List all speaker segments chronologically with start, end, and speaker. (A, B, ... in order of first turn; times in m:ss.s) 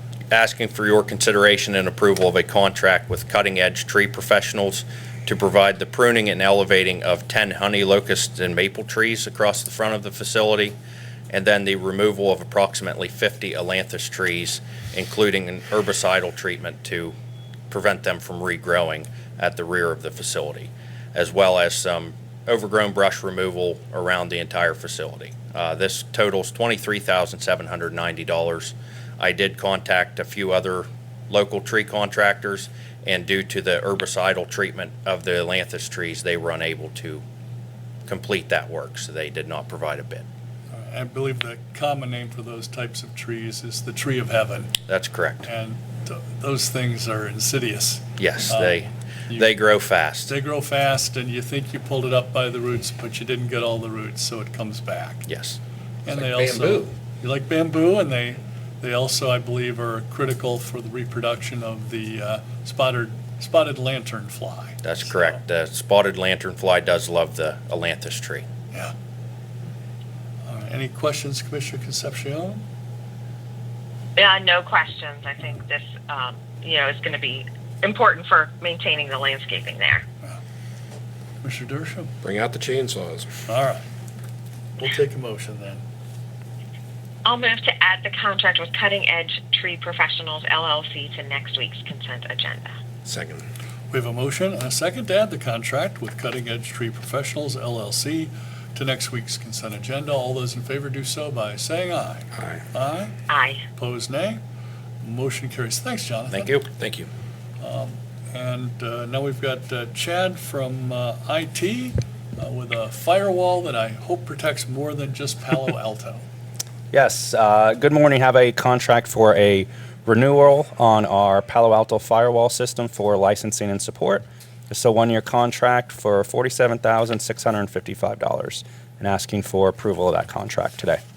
0:00.3-0:10.8 A
0:11.3-0:17.2 A
0:17.7-0:37.2 A
0:38.1-0:40.2 A
0:40.7-0:44.7 B
0:44.9-0:45.5 A
0:45.4-0:49.6 B
0:48.2-0:50.3 A
0:50.3-0:55.3 B
0:55.3-0:55.6 A
0:56.0-1:05.4 B
0:56.1-0:57.0 C
1:04.8-1:08.4 A
1:10.5-1:12.6 B
1:14.2-1:20.0 D
1:21.4-1:22.1 B
1:22.2-1:23.3 C
1:23.5-1:23.8 B
1:24.8-1:25.8 B
1:27.2-1:32.8 D
1:33.0-1:33.5 C
1:33.9-1:43.1 B
1:42.4-1:42.6 C
1:43.3-1:43.6 D
1:43.8-1:44.4 B
1:45.0-1:46.5 B
1:46.3-1:46.7 A
1:46.8-1:47.1 C
1:47.6-1:56.2 B
1:56.9-2:11.0 E